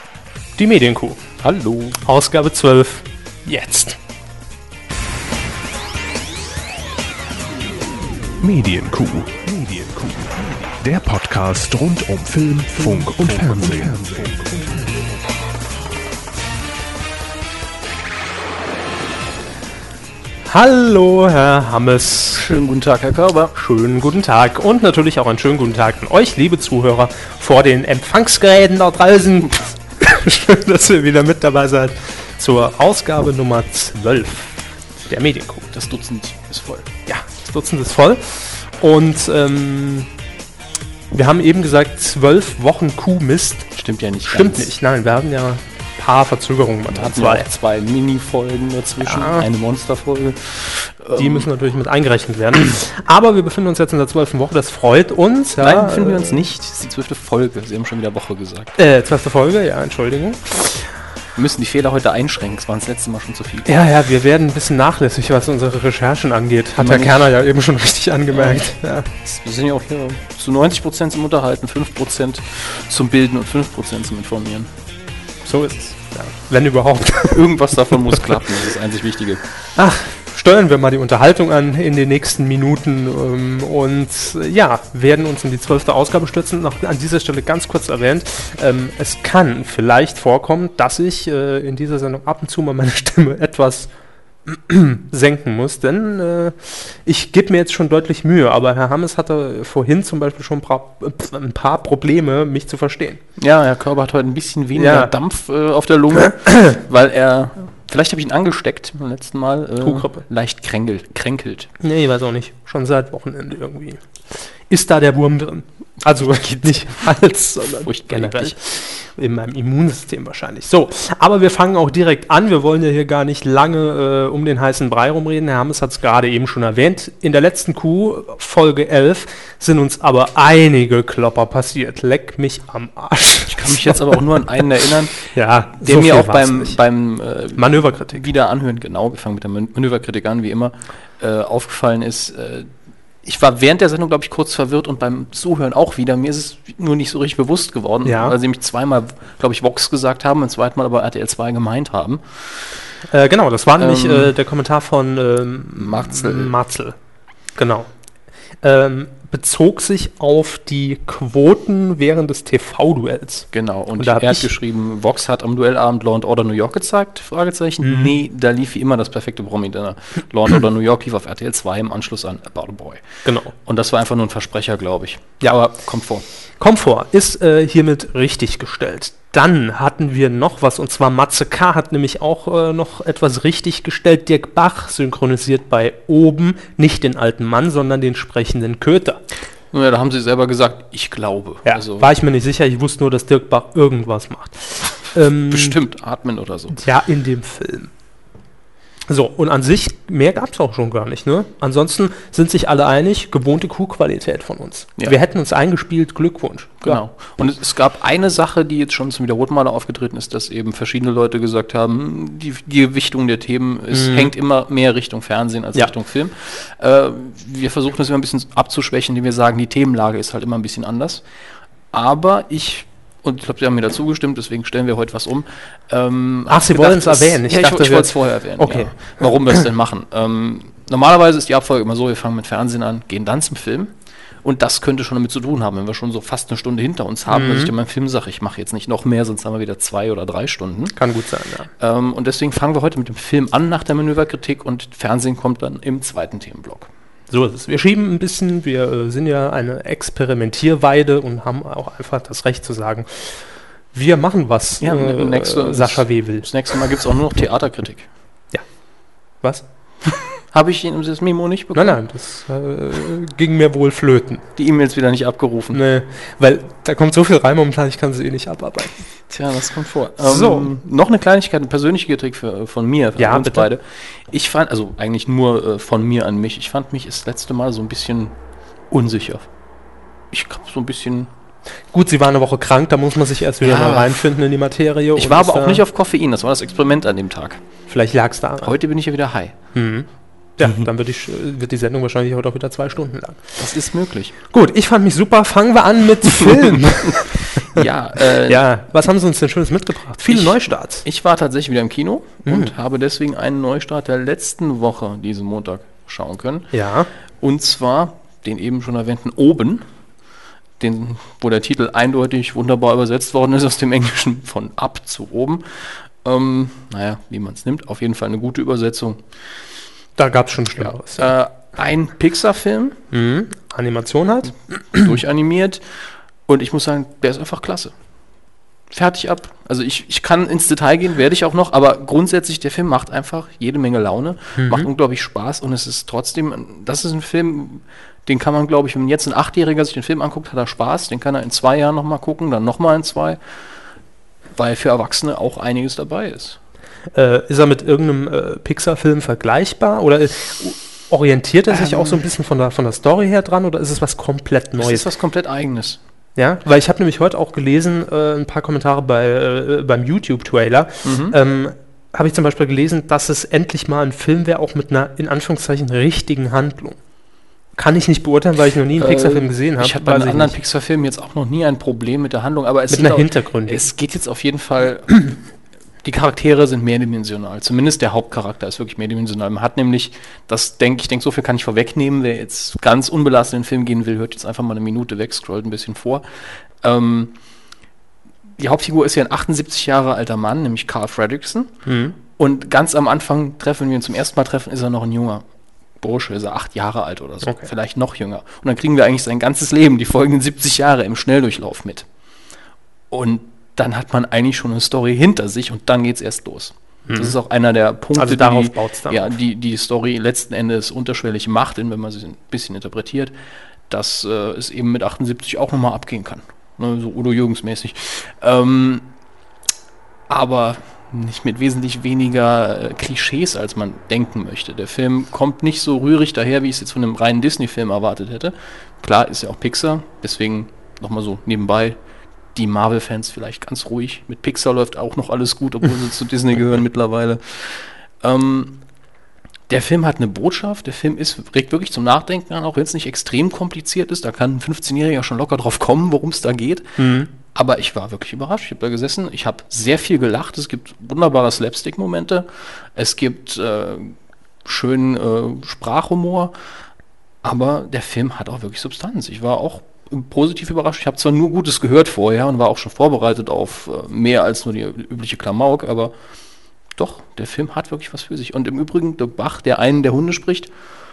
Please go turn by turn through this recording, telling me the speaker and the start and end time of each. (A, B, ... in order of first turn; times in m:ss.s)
0:00.6-0:01.2 A
0:01.4-0:02.0 B
0:02.0-0:04.0 A
0:08.4-0:09.3 B
0:09.3-0:15.0 C
0:12.8-0:14.3 B
0:20.5-0:22.5 A
0:22.3-0:23.5 B
0:23.5-0:35.7 A
0:35.7-0:36.9 B
0:37.1-0:40.1 A
0:41.1-0:43.7 A
0:43.7-0:44.7 B
0:44.2-0:47.4 A
0:46.9-0:51.5 B
0:49.0-0:49.4 A
0:51.2-0:56.4 A
0:55.6-0:58.7 B
0:58.8-1:00.9 A
1:01.3-1:03.7 B
1:03.6-1:09.1 A
1:06.8-1:07.3 B
1:08.3-1:08.6 B
1:09.2-1:14.7 B
1:15.4-1:17.4 A
1:17.3-1:19.4 B
1:19.7-1:33.9 A
1:34.4-1:43.2 A
1:43.4-1:51.7 B
1:44.7-1:45.1 A
1:46.3-1:46.7 A
1:49.8-1:50.2 A
1:51.8-1:54.0 A
1:54.7-2:14.2 A
1:56.1-1:57.2 B
1:57.7-1:58.6 B
2:13.5-2:15.2 B
2:15.2-2:16.8 A
2:15.8-2:22.7 B
2:17.6-2:18.2 A
2:23.2-2:32.4 B
2:28.0-2:28.4 A
2:33.1-2:37.0 A
2:33.8-2:34.3 B
2:35.8-2:36.5 B
2:37.6-2:37.9 A
2:38.6-2:44.4 A
2:43.5-2:53.0 B
2:47.8-2:48.1 A
2:53.2-2:53.5 A
2:53.6-2:56.2 B
2:56.6-3:09.2 A
3:09.7-3:12.1 B
3:11.6-3:15.8 A
3:15.5-3:16.8 B
3:16.7-3:17.9 A
3:19.1-3:27.0 A
3:26.8-3:41.2 B
3:33.9-3:34.3 A
3:41.9-4:01.0 B
3:46.5-3:49.1 A
3:57.3-3:57.7 A
4:01.0-4:01.7 A
4:01.8-4:06.9 B
4:07.3-4:13.4 A
4:13.9-4:16.8 A
4:14.8-4:18.1 B
4:20.5-4:22.0 B
4:21.7-4:24.4 A
4:24.6-4:25.8 B
4:25.7-4:29.0 A
4:29.3-4:38.3 B
4:30.2-4:30.7 A
4:33.2-4:33.7 A
4:38.9-4:39.5 B
4:40.3-4:41.3 B
4:41.9-4:45.8 A
4:43.6-4:44.3 B
4:45.1-4:47.6 B
4:47.9-4:48.8 A
4:48.6-4:49.5 B
4:49.7-4:50.1 A
4:50.6-4:53.6 A
4:53.6-4:54.3 B
4:54.5-5:01.0 A
4:56.4-4:58.6 B
5:00.3-5:06.7 B
5:02.4-5:02.7 A
5:06.7-5:07.1 A
5:07.4-5:09.8 B
5:10.8-5:19.2 B
5:20.2-5:21.3 A
5:20.8-5:23.0 B
5:23.1-5:25.2 A
5:24.9-5:27.9 B
5:28.9-5:43.4 B
5:34.6-5:34.9 A
5:44.6-5:46.6 B
5:47.1-5:55.0 A
5:51.7-5:52.2 B
5:54.8-5:56.0 B
5:56.4-6:07.0 A
6:01.0-6:01.4 B
6:07.8-6:10.6 A
6:09.0-6:15.3 B
6:12.9-6:13.8 A
6:16.0-6:27.3 B
6:28.6-6:31.8 B
6:31.8-6:32.2 A
6:32.3-6:35.4 B
6:36.0-6:42.1 B
6:37.4-6:37.7 A
6:43.1-6:53.3 B
6:47.1-6:47.4 A
6:48.1-6:49.4 A
6:53.9-6:59.1 B
7:00.3-7:12.0 B
7:12.5-7:18.8 B
7:19.7-7:36.5 B
7:27.0-7:27.3 A
7:37.4-7:46.1 B
7:46.9-7:50.7 B